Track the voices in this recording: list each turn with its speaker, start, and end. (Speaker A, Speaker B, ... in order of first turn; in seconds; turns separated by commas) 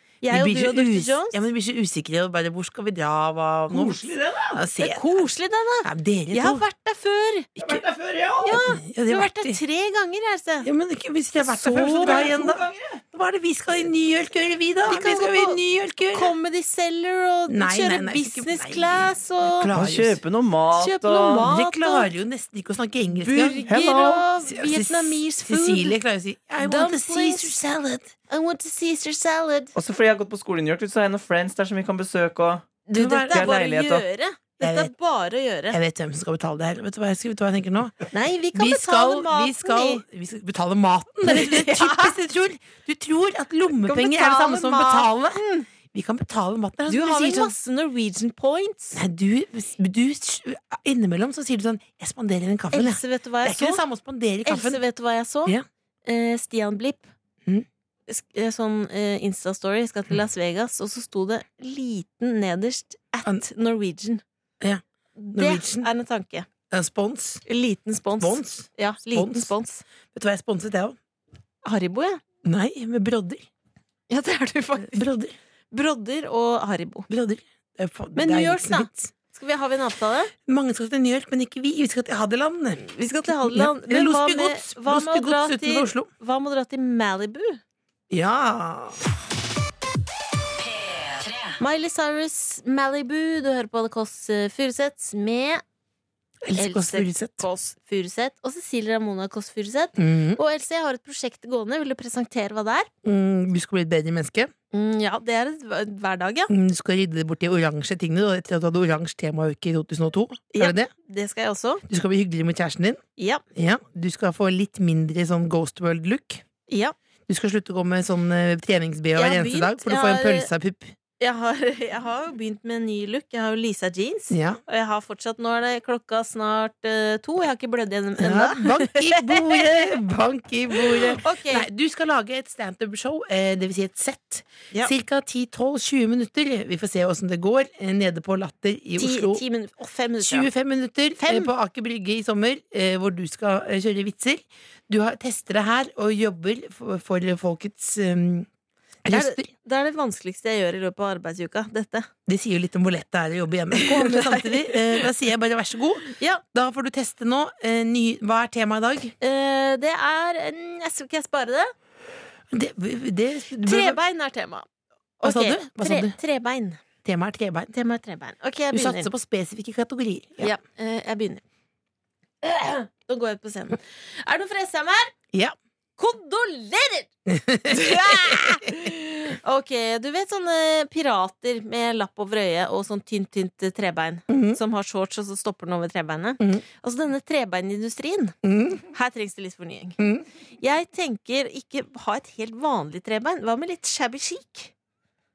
Speaker A: 0.2-1.4, Speaker B: 0.3-5.1, Speaker C: 3.7-4.6, Speaker A: 4.8-7.5, Speaker B: 5.8-6.6, Speaker B: 7.6-7.8, Speaker C: 7.6-8.6, Speaker A: 8.4-10.7, Speaker B: 8.7-9.6, Speaker B: 10.6-16.3, Speaker A: 11.4-12.3, Speaker C: 11.7-13.0, Speaker A: 14.9-15.6, Speaker A: 16.1-19.7, Speaker B: 17.5-20.2, Speaker C: 19.7-21.5, Speaker A: 20.8-22.1, Speaker B: 21.4-23.7, Speaker A: 23.2-26.0, Speaker C: 23.7-24.3, Speaker B: 24.4-28.1, Speaker A: 26.6-27.6, Speaker A: 28.3-29.7, Speaker C: 29.8-32.7, Speaker A: 32.9-35.8, Speaker B: 33.0-33.6, Speaker C: 33.3-34.0, Speaker B: 34.6-34.9, Speaker B: 35.7-47.5, Speaker A: 38.1-40.0, Speaker A: 41.2-42.2, Speaker A: 43.8-45.7, Speaker A: 46.9-49.0, Speaker B: 49.0-54.8, Speaker A: 52.7-53.8, Speaker A: 54.5-57.1, Speaker A: 58.1-64.2, Speaker A: 65.2-66.5, Speaker B: 65.3-65.9, Speaker B: 66.7-67.4, Speaker A: 67.5-69.8, Speaker B: 68.2-69.5, Speaker B: 70.1-71.0, Speaker A: 71.6-72.2, Speaker B: 72.4-73.5, Speaker A: 74.1-75.1, Speaker B: 74.8-75.4, Speaker A: 75.7-77.1, Speaker B: 77.1-79.1, Speaker A: 78.2-80.3, Speaker B: 80.5-86.1, Speaker A: 82.8-87.6, Speaker B: 88.1-89.0, Speaker A: 91.6-95.6, Speaker B: 96.5-97.5, Speaker A: 96.6-102.9, Speaker B: 100.0-100.4, Speaker B: 103.0-104.5, Speaker A: 104.7-106.5, Speaker B: 106.5-110.9, Speaker A: 110.5-111.8, Speaker B: 111.9-113.0, Speaker A: 113.2-113.4, Speaker B: 113.5-116.4, Speaker A: 116.7-117.0, Speaker B: 117.3-120.9, Speaker A: 119.2-120.5, Speaker A: 121.2-130.0, Speaker B: 124.3-124.6, Speaker B: 128.2-139.4, Speaker A: 130.7-131.7, Speaker A: 139.0-140.5, Speaker B: 140.2-148.5, Speaker A: 141.2-141.5, Speaker B: 149.1-149.5, Speaker A: 149.1-152.1, Speaker B: 152.3-159.1, Speaker A: 153.8-155.1, Speaker A: 156.1-156.4, Speaker A: 159.2-161.7, Speaker B: 162.5-164.0, Speaker A: 163.6-164.7, Speaker A: 165.2-166.8, Speaker B: 165.2-166.2, Speaker B: 167.0-167.7, Speaker A: 167.7-169.1, Speaker B: 168.7-170.5, Speaker A: 170.4-171.4, Speaker A: 172.4-175.1, Speaker A: 176.0-177.1, Speaker B: 177.3-178.7, Speaker A: 177.6-188.4, Speaker B: 184.3-184.6, Speaker B: 188.4-188.8, Speaker A: 188.9-190.1, Speaker A: 190.6-194.7